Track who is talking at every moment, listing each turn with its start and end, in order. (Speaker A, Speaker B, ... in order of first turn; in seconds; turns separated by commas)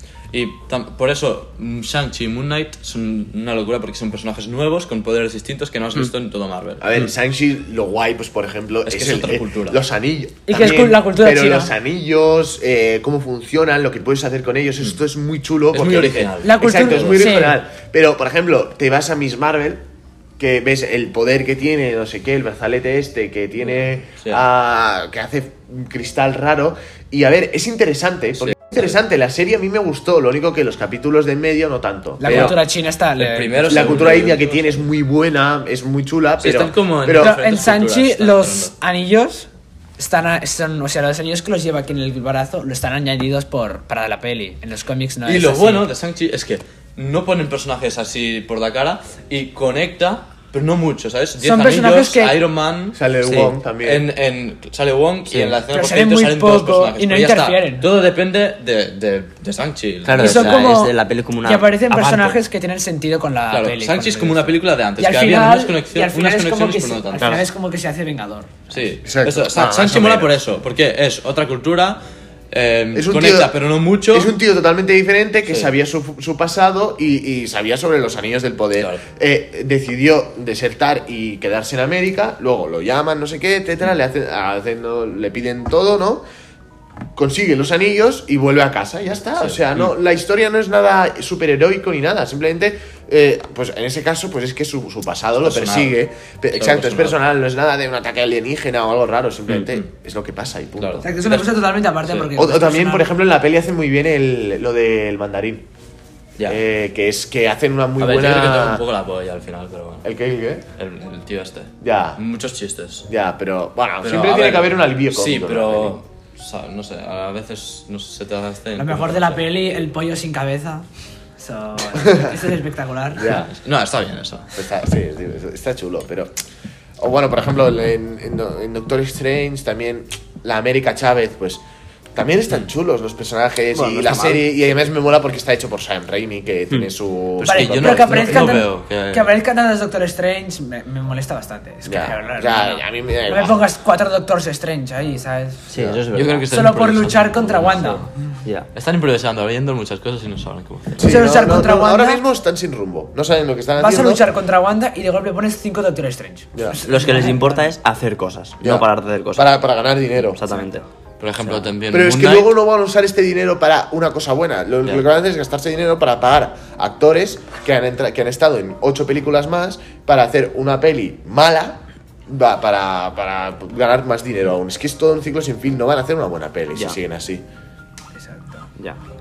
Speaker A: 0.3-6.9, Speaker B: 6.8-19.8, Speaker A: 8.9-9.8, Speaker C: 10.5-11.7, Speaker A: 15.7-17.2, Speaker C: 16.4-17.6, Speaker B: 20.4-32.5, Speaker C: 32.2-34.1, Speaker A: 32.2-32.6, Speaker A: 33.2-34.8, Speaker B: 33.7-37.4, Speaker A: 36.4-38.7, Speaker C: 37.1-45.9, Speaker A: 45.3-53.0, Speaker C: 51.4-52.4, Speaker B: 53.0-54.1, Speaker D: 53.2-53.5, Speaker A: 53.8-60.7, Speaker D: 55.3-55.6, Speaker C: 55.7-57.9, Speaker D: 60.0-62.4, Speaker C: 60.2-68.6, Speaker A: 63.5-67.4, Speaker D: 67.2-67.5, Speaker A: 68.7-74.3, Speaker B: 69.0-70.4, Speaker B: 72.9-73.6, Speaker B: 74.1-86.2, Speaker A: 78.8-79.0, Speaker B: 87.2-101.1, Speaker A: 89.4-89.9, Speaker A: 95.4-96.0, Speaker A: 96.5-97.2, Speaker A: 100.8-102.3, Speaker C: 101.0-103.1, Speaker B: 102.4-105.7, Speaker B: 106.5-108.8, Speaker A: 108.0-110.1, Speaker B: 110.0-110.6, Speaker A: 110.8-113.1, Speaker B: 111.8-112.2, Speaker B: 113.1-116.0, Speaker A: 114.0-119.5, Speaker C: 118.8-120.9, Speaker C: 121.4-123.3, Speaker B: 122.1-122.3, Speaker B: 123.2-123.5, Speaker A: 123.2-124.5, Speaker B: 124.5-126.3, Speaker B: 127.0-131.6, Speaker B: 132.1-138.6, Speaker D: 133.7-134.5, Speaker A: 137.4-139.3, Speaker C: 137.4-145.7, Speaker B: 141.8-143.7, Speaker D: 145.7-146.5, Speaker B: 145.7-146.0, Speaker A: 146.1-148.1, Speaker C: 146.5-148.1, Speaker A: 148.7-151.1, Speaker B: 151.0-154.2, Speaker C: 151.0-152.2, Speaker C: 153.8-157.7, Speaker B: 156.5-156.8, Speaker D: 156.8-159.6, Speaker B: 158.6-160.4, Speaker D: 160.2-160.9, Speaker A: 161.2-162.5, Speaker D: 161.4-161.7, Speaker B: 161.9-177.4, Speaker C: 178.1-178.7